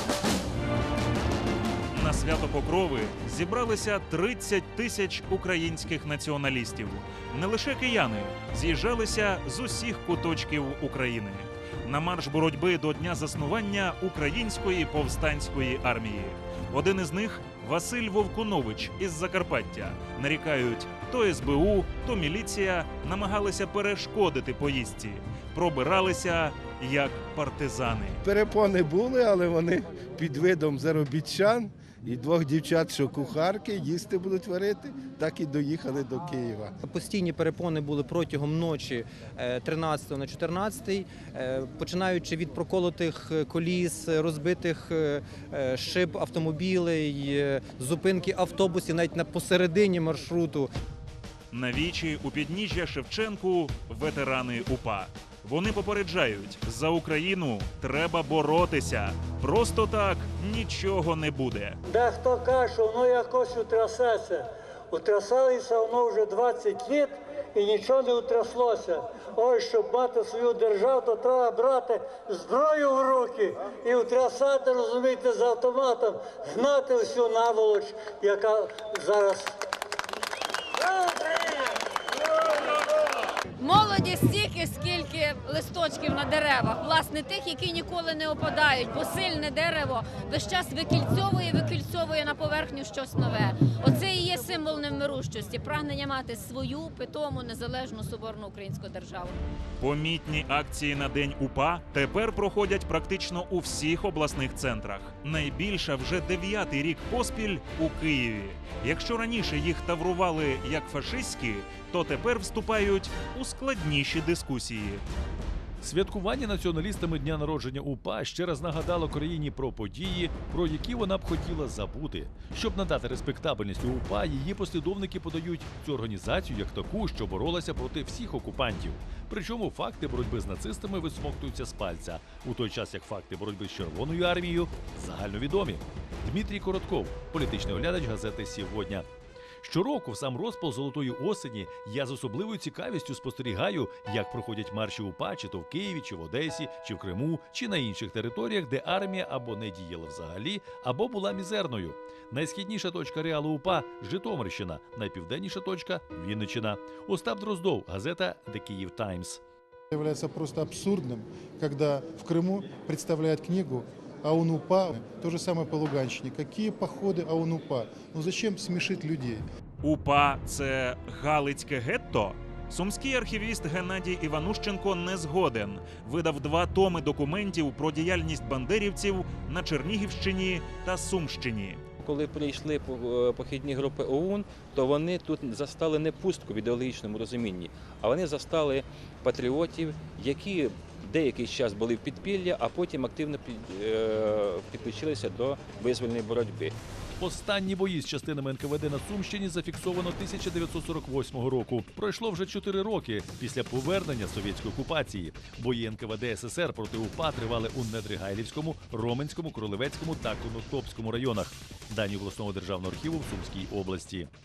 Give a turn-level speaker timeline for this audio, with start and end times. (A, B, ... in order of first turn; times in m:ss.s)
0:01.9-0:28.2 A
0:28.2-0:36.7 B
0:36.8-0:50.7 C
0:51.5-1:01.8 A
1:01.8-1:19.6 D
1:20.8-1:21.8 D
1:23.6-1:39.3 E
1:39.8-1:55.0 A
1:55.8-2:19.0 F
2:19.6-2:39.4 F
2:39.9-2:49.4 G
2:49.8-3:01.8 A
3:02.0-3:16.7 H
3:17.2-3:34.3 F